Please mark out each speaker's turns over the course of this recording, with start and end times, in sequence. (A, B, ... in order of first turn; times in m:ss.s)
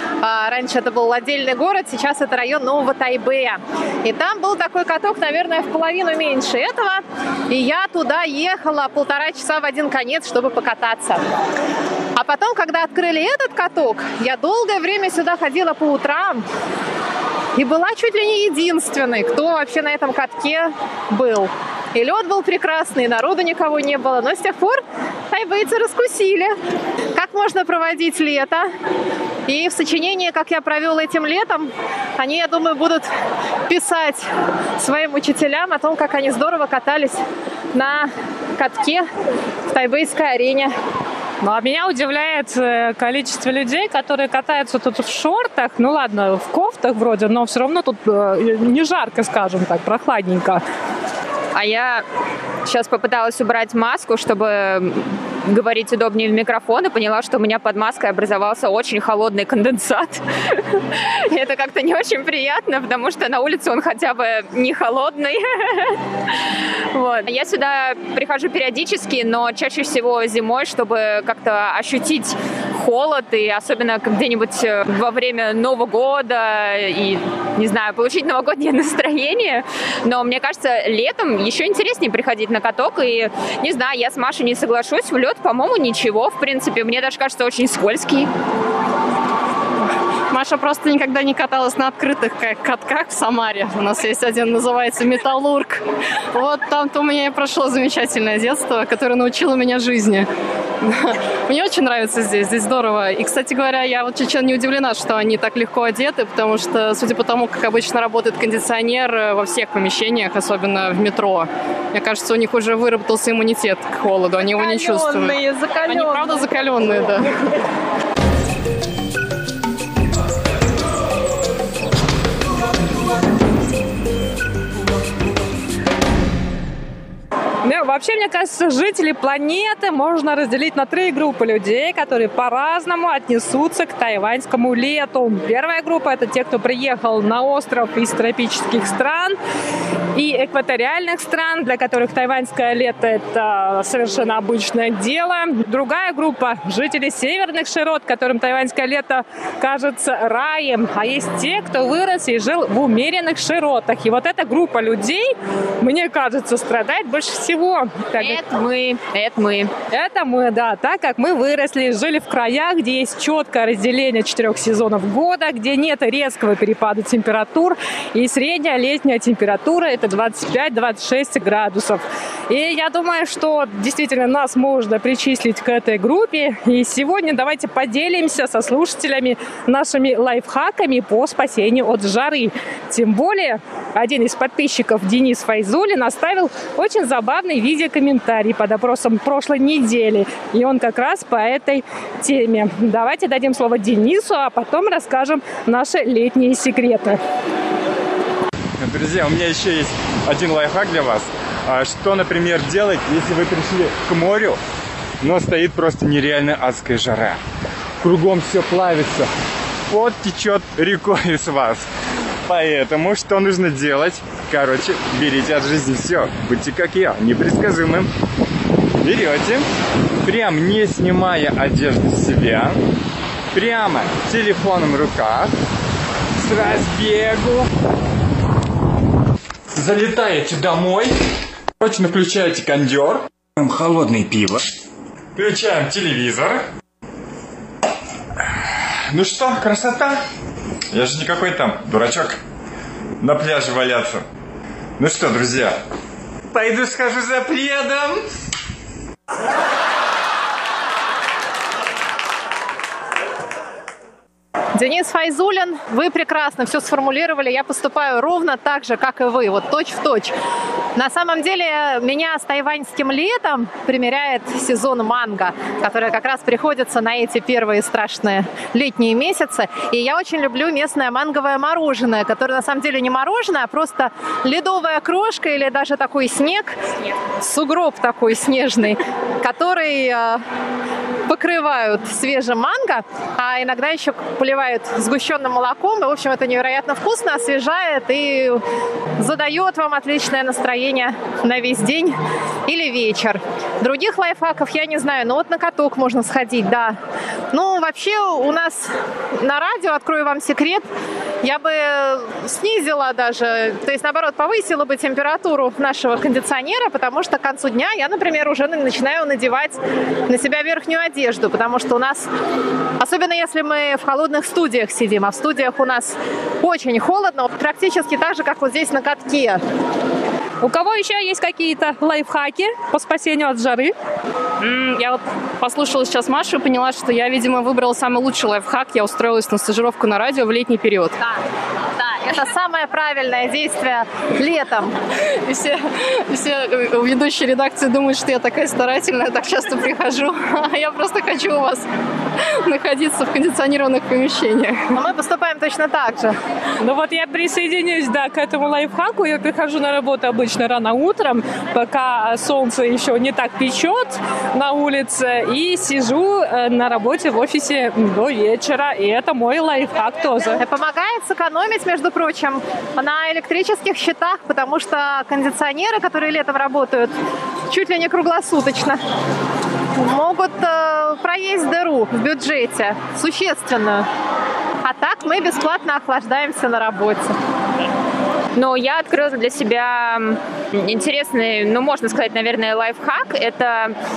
0:00.2-0:11.2 A
0:12.2-0:16.5 A
0:17.6-0:26.6 A
0:27.1-0:28.7 A
0:29.5-0:33.1 A
0:33.7-0:37.2 A
0:37.7-0:39.0 A
0:39.7-0:40.8 A
0:41.4-0:50.6 B
0:51.5-0:52.0 C
0:52.6-1:06.0 C
1:06.9-1:28.3 C
1:30.3-1:40.3 D
1:40.8-1:57.3 D
1:54.6-1:56.3 A
2:07.6-2:19.4 B
2:20.2-2:38.4 B
2:38.2-2:39.7 C
2:39.9-3:17.2 B
3:18.8-3:24.6 E
3:25.2-3:27.4 E
3:28.0-3:29.3 E
3:29.9-3:31.9 E
3:32.5-3:38.1 E
3:39.0-3:39.7 E
3:40.2-3:42.8 E
3:43.5-3:45.5 E
3:46.4-3:47.7 E
3:49.7-3:51.2 E
3:51.8-3:54.7 E
3:55.4-3:56.6 E
3:59.1-4:00.2 E
4:00.9-4:02.4 E
4:03.2-4:04.2 E
4:05.0-4:05.8 E
4:06.5-4:08.2 E
4:14.8-4:20.3 A
4:21.0-4:36.8 A
4:37.4-4:40.4 A
4:41.3-4:48.6 A
4:49.2-4:52.2 A
4:52.7-4:57.0 A
4:57.5-5:00.9 A
5:01.4-5:12.3 A
5:13.0-5:19.6 A
5:20.6-5:23.9 B
5:24.6-5:31.2 D
5:32.0-5:35.0 A
5:35.4-5:44.9 D
5:45.0-5:46.4 A
5:46.8-6:00.6 B
6:00.6-6:07.2 A
6:07.7-6:09.0 A
6:10.0-6:14.1 A
6:14.8-6:17.4 A
6:18.6-6:24.0 C